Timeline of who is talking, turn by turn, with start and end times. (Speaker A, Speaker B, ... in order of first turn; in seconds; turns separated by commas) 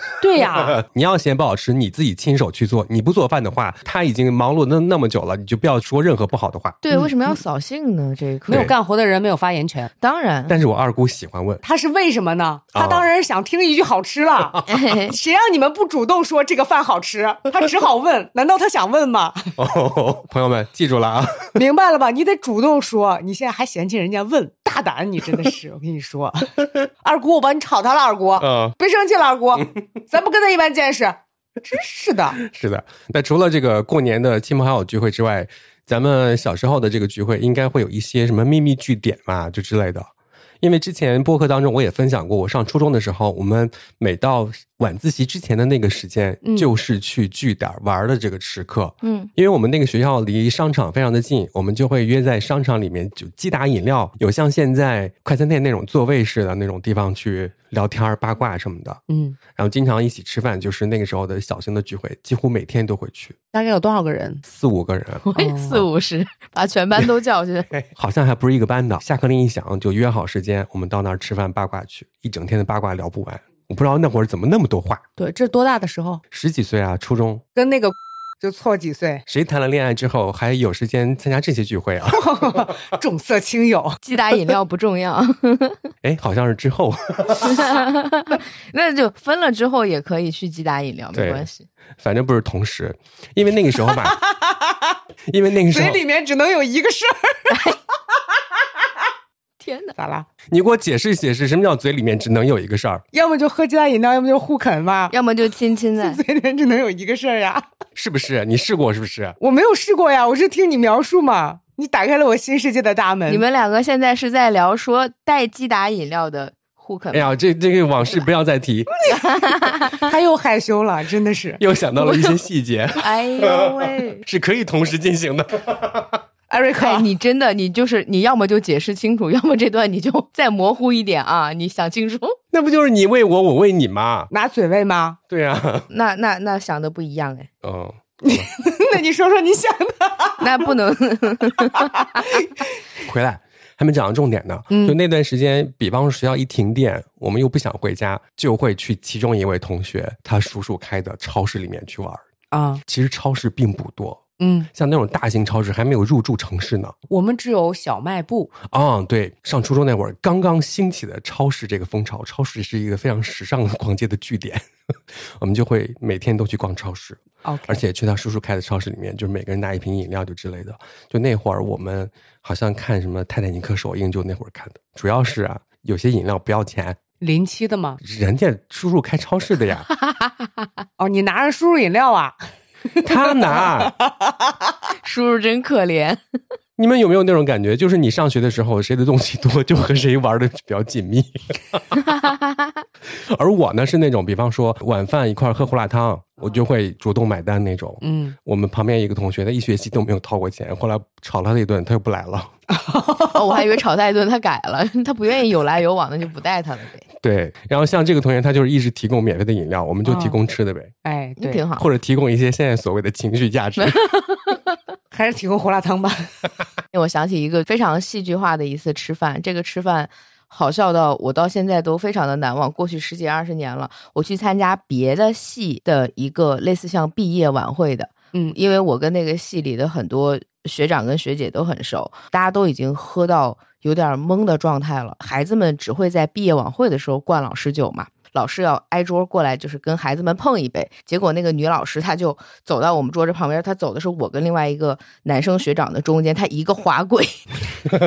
Speaker A: 0.2-0.8, Speaker B: 0.4-6.8, Speaker C: 6.8-8.7, Speaker A: 8.5-9.9, Speaker C: 10.0-10.6, Speaker B: 10.5-11.6, Speaker A: 11.6-19.5, Speaker B: 12.7-13.1, Speaker C: 14.7-15.1, Speaker B: 19.6-21.5, Speaker A: 21.5-32.4, Speaker B: 28.4-28.7, Speaker B: 32.4-40.1, Speaker B: 40.6-59.0, Speaker A: 46.4-46.7, Speaker C: 49.0-49.3, Speaker A: 59.1-59.4, Speaker B: 59.5-63.3, Speaker A: 63.5-64.4, Speaker B: 64.5-65.3, Speaker C: 65.3-67.7, Speaker A: 65.3-65.8, Speaker B: 67.7-75.0, Speaker A: 75.2-76.2, Speaker B: 76.3-77.4, Speaker A: 77.5-79.2, Speaker B: 79.3-82.2, Speaker A: 82.1-84.0, Speaker C: 84.0-85.8, Speaker B: 86.0-87.7, Speaker C: 87.4-91.7, Speaker B: 91.1-91.4, Speaker B: 92.0-94.2, Speaker A: 93.8-95.0, Speaker B: 95.3-96.0, Speaker A: 95.7-97.6, Speaker C: 97.5-97.8, Speaker C: 99.6-100.0, Speaker A: 100.0-100.3, Speaker B: 100.5-103.0, Speaker A: 103.1-105.1, Speaker C: 105.1-106.2, Speaker A: 106.0-107.7, Speaker B: 108.0-109.4, Speaker A: 109.4-113.4, Speaker C: 113.3-117.3, Speaker B: 117.1-118.9, Speaker C: 119.1-120.0, Speaker A: 119.9-121.6, Speaker B: 121.6-126.2, Speaker C: 122.0-122.4, Speaker C: 123.0-124.2, Speaker A: 126.5-127.1, Speaker C: 126.8-132.4, Speaker B: 132.5-134.3, Speaker A: 134.3-135.2, Speaker B: 135.3-135.9, Speaker C: 135.9-137.5, Speaker B: 137.6-138.5, Speaker A: 138.2-140.7, Speaker C: 140.4-141.9, Speaker A: 141.6-142.2, Speaker B: 143.0-152.2, Speaker A: 144.7-145.0, Speaker A: 152.5-152.8, Speaker B: 152.8-154.2, Speaker A: 154.4-154.7, Speaker B: 154.7-156.9, Speaker A: 157.1-158.5, Speaker B: 158.7-177.0, Speaker A: 167.4-167.8, Speaker A: 177.2-178.0, Speaker B: 178.0-179.9, Speaker A: 181.0-182.4, Speaker B: 183.0-183.9, Speaker A: 183.0-184.7, Speaker C: 185.0-186.2, Speaker B: 186.8-192.0, Speaker C: 192.2-192.5, Speaker B: 193.3-202.5, Speaker A: 198.0-198.3, Speaker A: 202.7-203.6, Speaker C: 203.3-207.1, Speaker B: 207.2-210.9, Speaker A: 210.0-210.4, Speaker A: 211.0-211.6, Speaker C: 211.4-211.8, Speaker B: 211.8-214.0, Speaker C: 213.8-214.6, Speaker A: 215.1-216.3, Speaker C: 216.9-247.6